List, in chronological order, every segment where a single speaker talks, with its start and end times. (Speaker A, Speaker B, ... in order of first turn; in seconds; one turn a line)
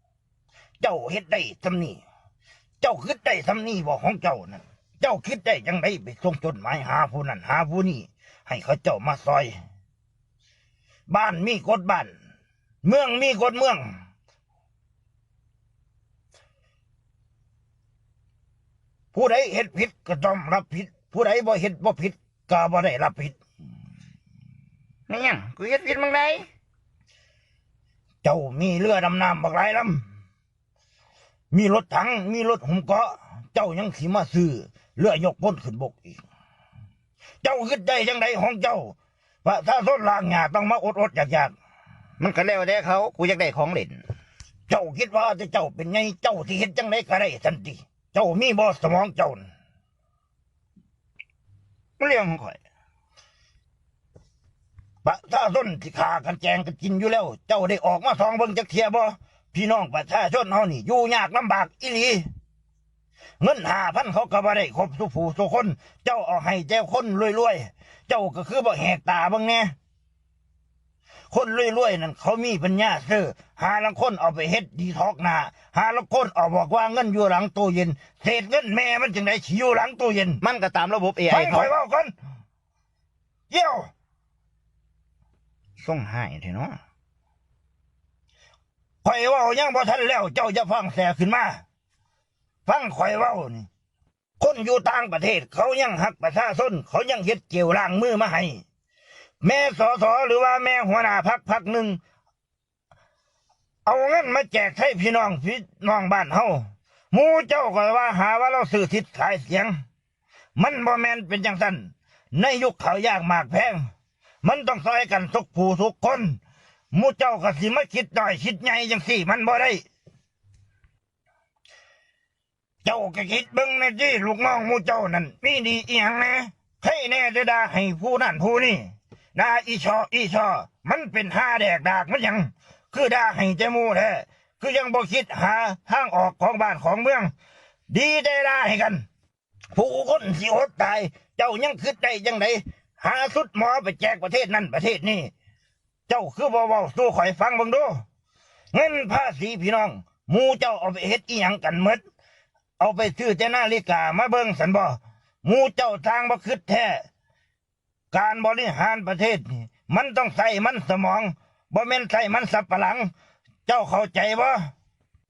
Speaker A: 0.8-2.0
Speaker A: 2.8-9.6
Speaker A: 11.1-12.1
Speaker A: 12.8-14.0
Speaker A: 19.1-23.4
Speaker B: 25.1-26.5
Speaker A: 28.2-30.0
Speaker A: 31.5-36.2
Speaker A: 37.4-41.5
Speaker B: 42.2-44.0
Speaker A: 44.7-49.5
Speaker A: 52.0-52.6
Speaker A: 55.0-62.3
Speaker A: 63.4-69.7
Speaker A: 71.3-80.4
Speaker B: 80.4-81.7
Speaker A: 81.3-82.1
Speaker A: 83.5-83.9
Speaker B: 85.8-86.8
Speaker A: 89.0-91.6
Speaker A: 92.7-93.7
Speaker A: 94.4-98.6
Speaker A: 99.4-102.0
Speaker A: 103.8-109.8
Speaker A: 110.5-113.9
Speaker A: 114.4-116.4
Speaker A: 116.9-119.8
Speaker A: 122.8-137.3
Speaker A: 137.9-139.0
Speaker A: 139.7-145.3
Speaker A: 146.1-148.0
Speaker A: 148.7-152.0
Speaker A: 152.8-157.0
Speaker A: 158.1-163.1
Speaker A: 163.7-164.7